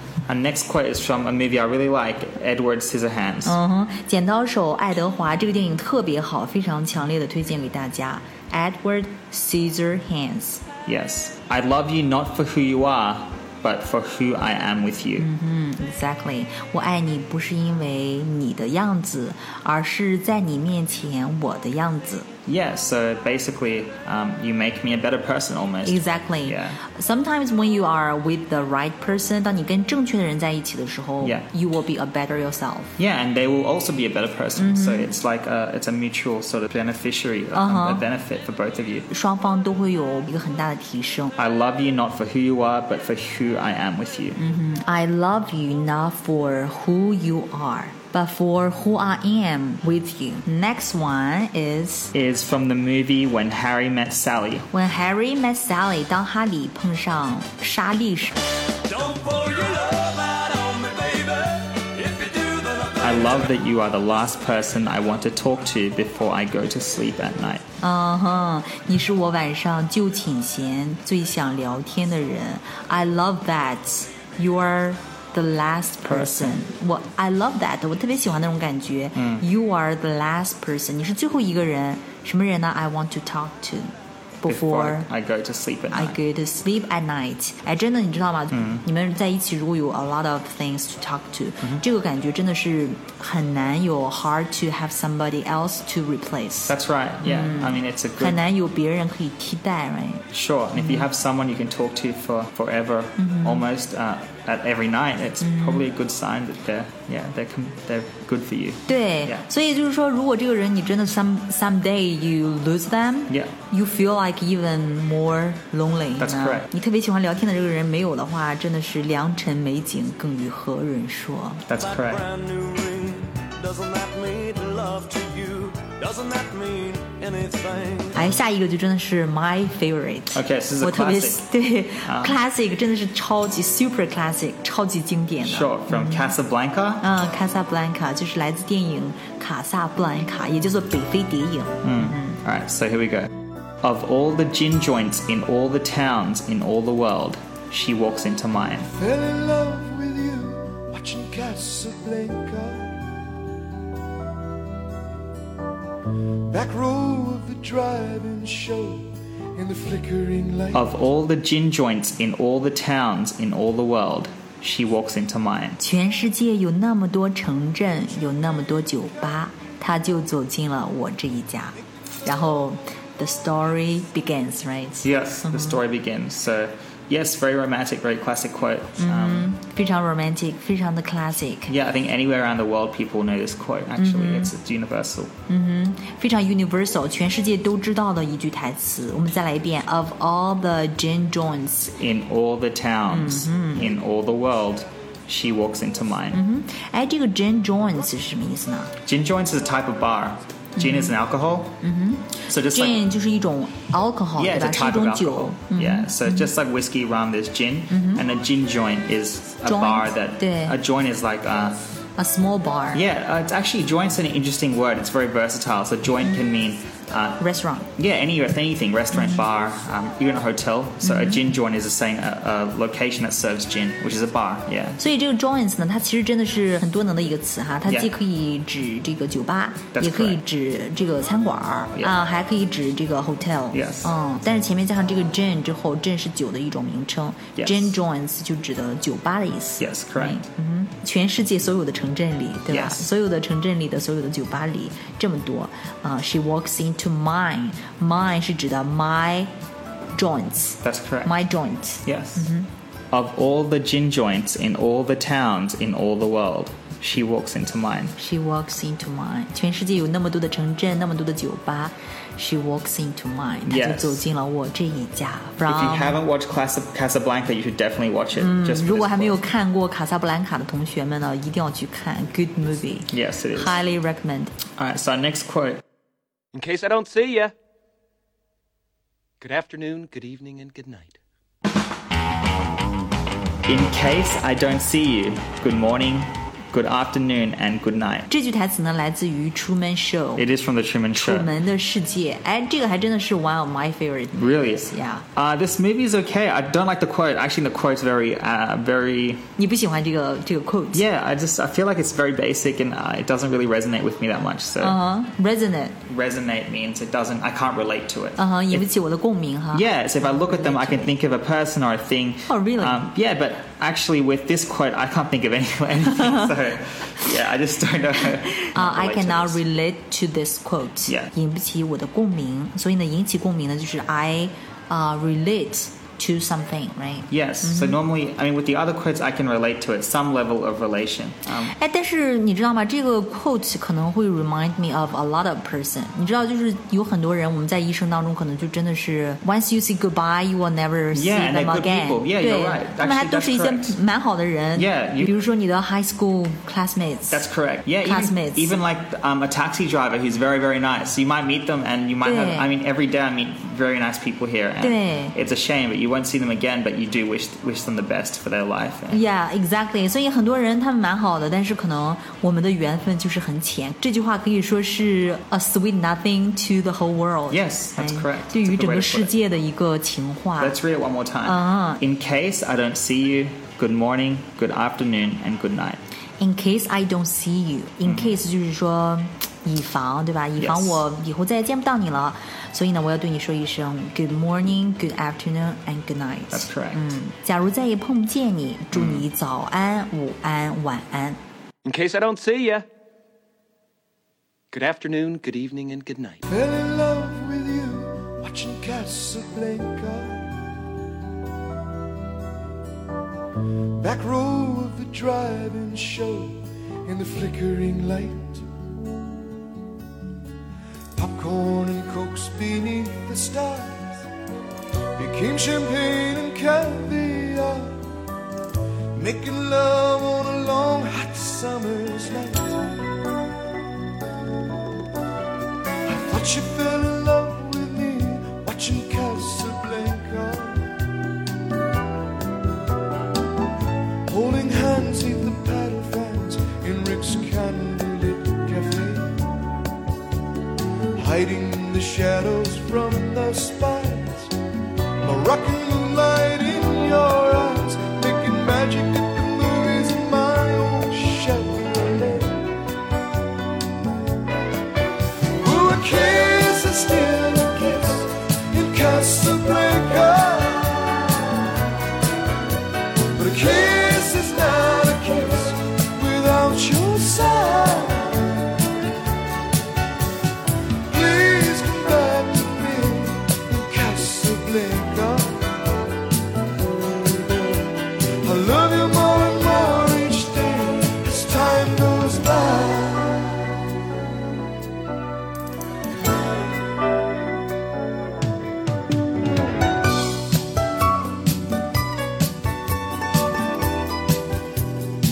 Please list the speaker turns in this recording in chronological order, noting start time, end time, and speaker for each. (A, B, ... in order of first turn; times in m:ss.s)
0:00.3-0:03.6 A
0:03.4-0:10.6 B
0:10.8-0:15.3 A
0:15.2-0:22.3 B
0:22.4-0:26.8 A
0:25.8-0:33.0 B
0:31.2-0:31.5 A
0:33.0-0:39.1 A
0:34.6-0:35.1 B
0:37.5-0:38.0 B
0:39.1-0:41.3 B
0:41.4-0:44.4 A
0:44.4-0:52.1 B
0:52.1-0:54.7 A
0:54.7-0:58.4 B
0:58.8-1:03.5 C
1:03.0-1:07.6 A
1:07.8-1:25.1 B
1:16.1-1:16.6 A
1:19.2-1:19.4 A
1:24.4-1:26.2 A
1:25.9-1:40.2 B
1:28.5-1:28.8 A
1:36.7-1:38.4 A
1:40.3-1:49.4 A
1:40.8-1:41.1 B
1:43.2-1:43.7 B
1:45.4-1:45.9 B
1:48.9-2:01.6 B
1:56.2-1:56.7 A
2:01.7-2:02.2 A
2:01.8-2:08.2 C
2:08.2-2:16.3 B
2:10.3-2:11.4 A
2:12.0-2:12.4 A
2:15.4-2:17.1 A
2:17.0-2:22.4 B
2:21.8-2:23.3 A
2:23.8-2:28.9 A
2:28.9-2:33.0 D
2:36.5-2:40.8 D
2:40.7-2:45.8 A
2:45.8-2:55.8 B
2:55.0-2:59.6 A
2:59.0-3:01.7 B
3:01.7-3:05.3 A
3:04.0-3:04.5 B
3:05.5-3:12.0 B
3:12.0-3:16.4 A
3:13.1-3:13.9 B
3:16.3-3:18.9 B
3:19.0-3:21.8 A
3:20.8-3:21.2 B
3:21.8-3:26.5 B
3:22.5-3:23.0 A
3:24.4-3:31.9 A
3:27.9-3:28.2 B
3:29.6-3:30.8 B
3:32.2-3:33.0 B
3:32.9-3:37.4 A
3:37.4-3:37.9 B
3:38.0-3:45.0 A
3:39.1-3:39.4 B
3:41.0-3:41.4 B
3:45.0-4:09.5 B
3:47.8-3:48.1 A
3:49.9-3:50.4 A
3:53.7-3:54.1 A
3:57.6-3:58.0 A
3:59.8-4:00.4 A
4:02.7-4:03.1 A
4:10.1-4:12.7 B
4:10.8-4:11.3 A
4:12.0-4:12.5 A
4:13.1-4:18.1 A
4:18.2-4:26.2 B
4:23.6-4:24.3 A
4:25.6-4:29.4 A
4:28.3-4:34.5 B
4:33.1-4:33.8 A
4:34.8-4:35.8 A
4:36.5-4:37.5 E
4:39.4-4:41.2 E
4:43.6-4:48.3 A
4:48.3-4:50.4 B
4:50.4-4:51.5 A
4:51.1-4:55.2 B
4:54.4-4:59.4 A
4:59.6-5:01.0 B
5:00.9-5:05.0 A
5:04.8-5:06.0 B
5:06.0-5:08.9 A
5:08.4-5:11.1 B
5:09.7-5:19.6 A
5:12.5-5:13.0 B
5:16.2-5:16.5 B
5:18.6-5:28.0 B
5:27.3-5:31.7 A
5:31.7-5:47.4 B
5:41.1-5:44.0 A
5:44.7-5:45.3 A
5:47.3-5:59.2 A
5:48.0-5:48.8 B
5:52.2-5:52.7 B
5:54.8-5:55.4 B
5:59.1-6:10.8 B
6:07.5-6:09.3 A
6:10.6-6:16.0 A
6:11.4-6:12.0 B
6:16.4-6:31.4 B
6:18.0-6:18.4 A
6:20.6-6:21.0 A
6:26.5-6:27.0 A
6:28.9-6:29.3 A
6:31.8-6:32.8 E
6:34.7-6:36.4 E
6:36.5-6:40.5 D
6:44.0-6:48.6 D
6:51.2-6:54.3 D
6:55.2-6:58.0 D
6:59.1-7:02.9 D
7:06.0-7:10.9 D
7:14.3-7:19.5 D
7:21.2-7:24.5 D
7:25.2-7:32.7 D
7:35.6-7:41.2 D
7:43.3-7:48.6 D
7:51.1-7:55.7 D
7:58.4-8:03.5 D